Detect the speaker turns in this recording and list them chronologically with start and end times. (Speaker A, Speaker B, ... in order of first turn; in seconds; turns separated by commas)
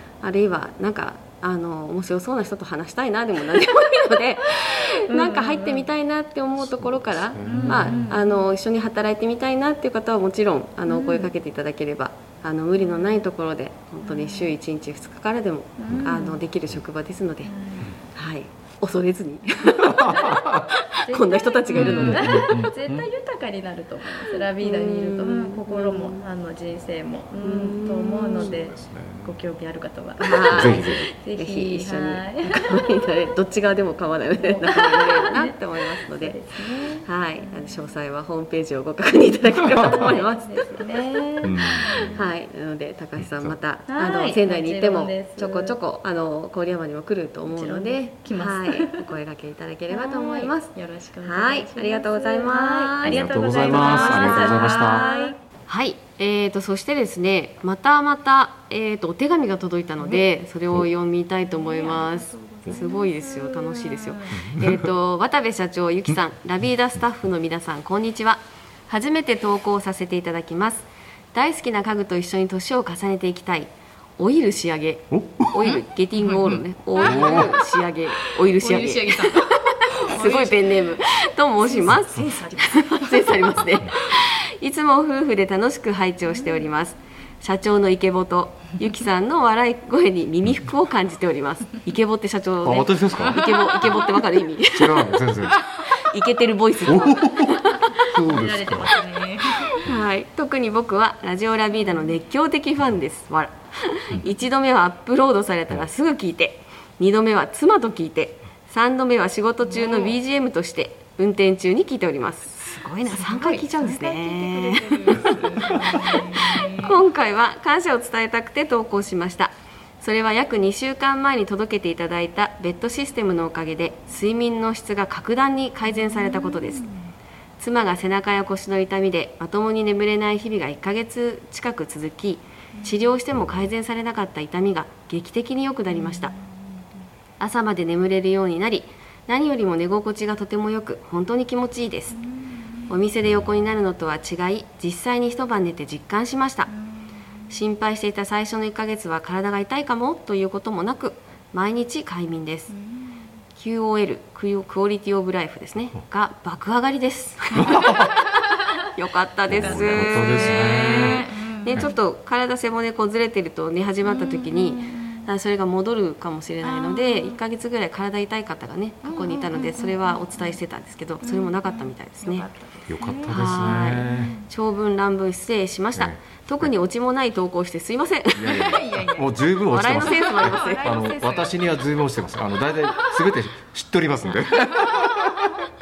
Speaker A: 0.2-17.5, Speaker B: 5.1-5.9, Speaker C: 6.6-8.1, Speaker B: 7.4-8.5, Speaker B: 10.9-11.3, Speaker B: 12.8-13.2, Speaker B: 14.0-14.5, Speaker B: 15.8-16.4, Speaker C: 15.9-16.2, Speaker B: 17.4-17.9, Speaker A: 18.1-22.5, Speaker C: 20.0-20.6, Speaker B: 20.1-20.4, Speaker B: 21.1-32.9, Speaker C: 21.7-23.1, Speaker A: 24.6-26.2, Speaker A: 27.4-28.5, Speaker C: 28.4-29.3, Speaker A: 30.2-41.0, Speaker C: 30.5-31.1, Speaker B: 34.4-37.8, Speaker B: 39.7-42.3, Speaker C: 41.4-42.2, Speaker A: 41.9-95.2, Speaker C: 43.2-43.5, Speaker B: 43.9-45.8, Speaker B: 47.5-49.1, Speaker B: 49.9-55.4, Speaker C: 53.0-55.0, Speaker B: 61.5-64.5, Speaker C: 64.4-64.8, Speaker C: 75.1-75.8, Speaker B: 77.0-77.6, Speaker C: 77.0-77.5, Speaker B: 78.4-81.0, Speaker B: 81.6-83.5, Speaker B: 86.3-86.7, Speaker C: 92.6-93.5, Speaker B: 93.1-94.2, Speaker C: 94.7-95.7, Speaker B: 95.6-96.1, Speaker A: 95.8-98.1, Speaker C: 96.8-98.9, Speaker B: 97.8-99.8, Speaker A: 99.7-126.9, Speaker B: 109.6-110.2, Speaker B: 112.5-117.0, Speaker B: 125.9-127.0, Speaker A: 127.6-136.3, Speaker B: 132.8-133.0, Speaker B: 135.9-136.6, Speaker A: 137.4-142.2, Speaker B: 142.2-142.5, Speaker A: 142.9-146.7, Speaker B: 146.8-147.0, Speaker A: 147.5-152.7, Speaker B: 152.7-153.2, Speaker A: 153.6-172.5, Speaker C: 157.6-158.1, Speaker B: 157.7-158.9, Speaker C: 159.4-161.9, Speaker B: 159.6-161.9, Speaker B: 164.0-165.3, Speaker B: 166.6-167.4, Speaker B: 169.0-170.6, Speaker B: 171.2-174.5, Speaker C: 172.9-174.3, Speaker A: 173.3-178.8, Speaker C: 175.9-176.7, Speaker C: 178.3-185.6, Speaker B: 178.5-179.3, Speaker A: 179.7-180.9, Speaker B: 179.9-181.5, Speaker B: 182.9-183.2, Speaker B: 184.7-185.0